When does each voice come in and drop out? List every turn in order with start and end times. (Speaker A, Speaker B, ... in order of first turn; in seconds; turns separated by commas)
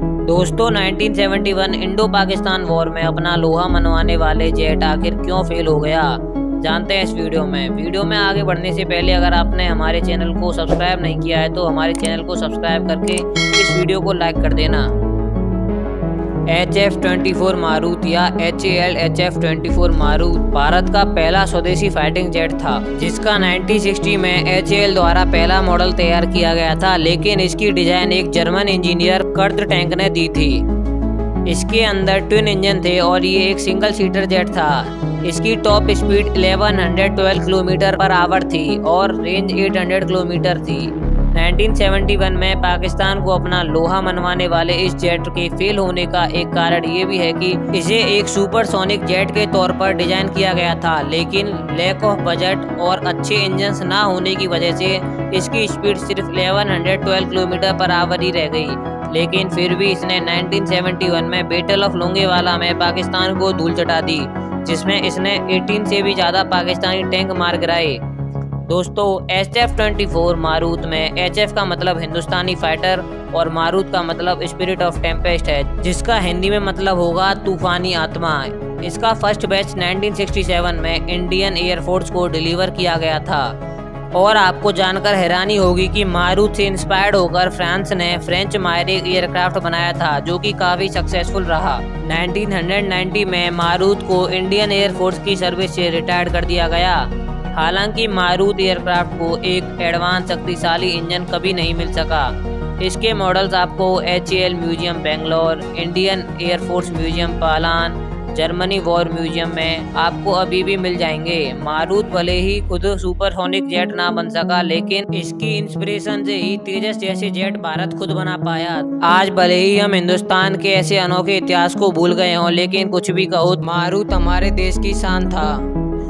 Speaker A: 0.2-14.9, Speaker A: 16.5-30.6, Speaker A: 31.4-68.0, Speaker A: 68.7-83.5, Speaker A: 84.1-125.7